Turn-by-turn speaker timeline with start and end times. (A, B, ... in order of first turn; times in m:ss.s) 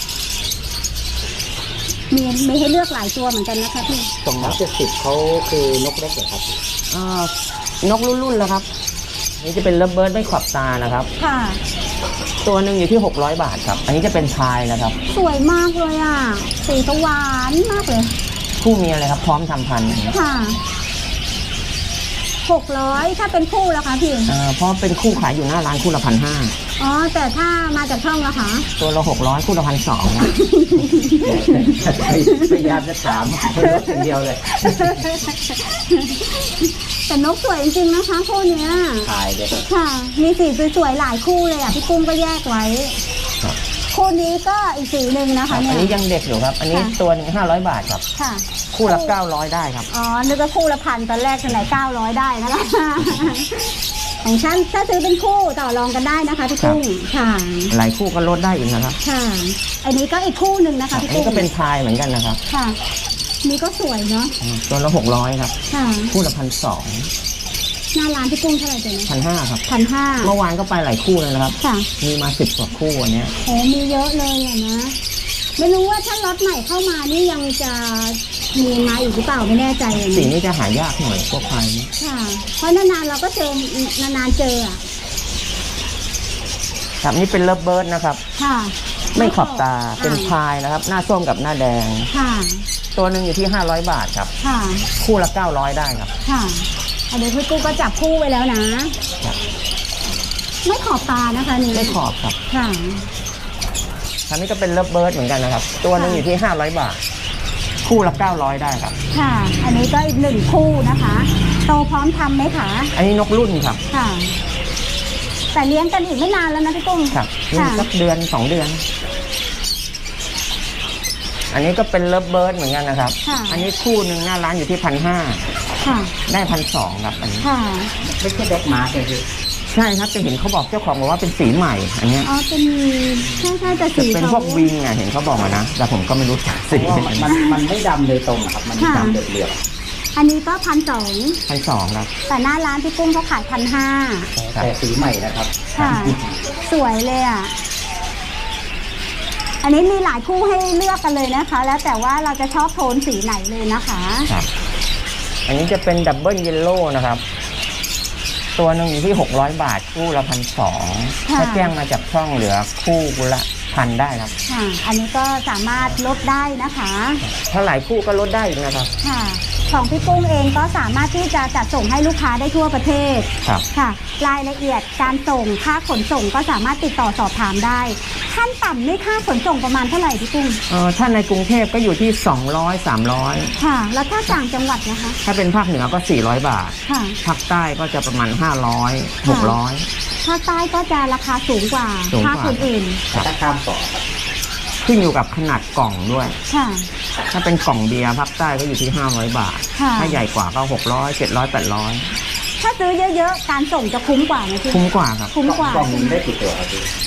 0:02.1-0:04.1 A
0:04.2-0:06.6 B
0:06.9-0:08.7 C
0:09.4-0:11.1 C
0:11.2-0:11.6 A
0:12.4-0:15.0 C
0:15.1-0:18.1 A
0:18.6-0:20.1 C
0:20.1-0:20.6 A
0:22.4-0:24.3 A
0:24.3-0:26.5 C
0:26.8-0:28.7 A
0:28.8-0:30.3 C
0:30.2-0:32.7 A
0:31.2-0:35.1 B
0:33.6-0:39.1 A
0:39.0-0:39.5 B
0:39.6-0:43.0 A
0:43.9-0:46.0 A
0:45.5-0:48.0 C
0:48.2-0:49.1 A
0:48.7-0:49.9 C
0:49.9-0:53.7 A
0:54.2-0:57.7 A
0:57.7-0:59.0 C
0:59.0-1:01.5 A
1:00.9-1:02.4 C
1:02.5-1:02.8 A
1:03.4-1:04.3 A
1:04.4-1:05.5 C
1:05.7-1:06.1 A
1:06.1-1:07.1 C
1:07.9-1:09.1 A
1:09.1-1:09.6 C
1:09.6-1:10.3 A
1:10.2-1:13.3 C
1:11.6-1:11.9 A
1:13.4-1:14.9 A
1:15.6-1:20.3 A
1:19.9-1:21.9 C
1:22.0-1:24.8 A
1:27.0-1:28.2 C
1:28.4-1:30.3 A
1:29.1-1:32.1 C
1:32.1-1:32.6 A
1:32.9-1:34.3 C
1:34.4-1:34.9 A
1:35.0-1:36.1 C
1:36.2-1:38.9 A
1:40.6-1:43.1 A
1:41.7-1:42.4 C
1:44.3-1:47.0 C
1:46.0-1:46.2 A
1:47.8-1:49.0 C
1:49.1-1:52.9 A
1:52.9-1:53.8 C
1:53.9-1:54.3 A
1:55.5-1:57.8 A
1:57.1-1:58.8 C
2:01.5-2:05.4 C
2:03.2-2:03.6 A
2:05.8-2:06.1 A
2:06.3-2:07.5 C
2:07.4-2:07.9 A
2:08.0-2:09.2 B
2:09.7-2:12.3 C
2:12.2-2:14.7 A
2:13.9-2:17.3 C
2:16.7-2:19.6 B
2:18.8-2:19.2 A
2:20.2-2:21.4 A
2:21.5-2:22.1 C
2:22.3-2:24.3 A
2:24.4-2:24.7 C
2:24.5-2:26.3 B
2:25.8-2:27.5 A
2:25.8-2:26.1 C
2:29.6-2:34.3 A
2:35.4-2:37.2 C
2:38.6-2:44.3 C
2:41.3-2:41.7 A
2:44.5-2:47.2 A
2:47.3-2:48.9 C
2:49.0-3:00.6 A
3:00.7-3:03.5 C
3:03.6-3:05.2 A
3:05.2-3:09.9 C
3:06.9-3:07.2 A
3:09.2-3:09.6 A
3:10.2-3:13.0 A
3:12.1-3:13.3 C
3:13.1-3:14.0 B
3:14.8-3:16.4 C
3:16.5-3:16.9 A
3:17.3-3:22.1 C
3:19.8-3:20.2 A
3:22.6-3:24.8 A
3:24.7-3:25.3 C
3:25.3-3:26.2 A
3:25.4-3:26.9 B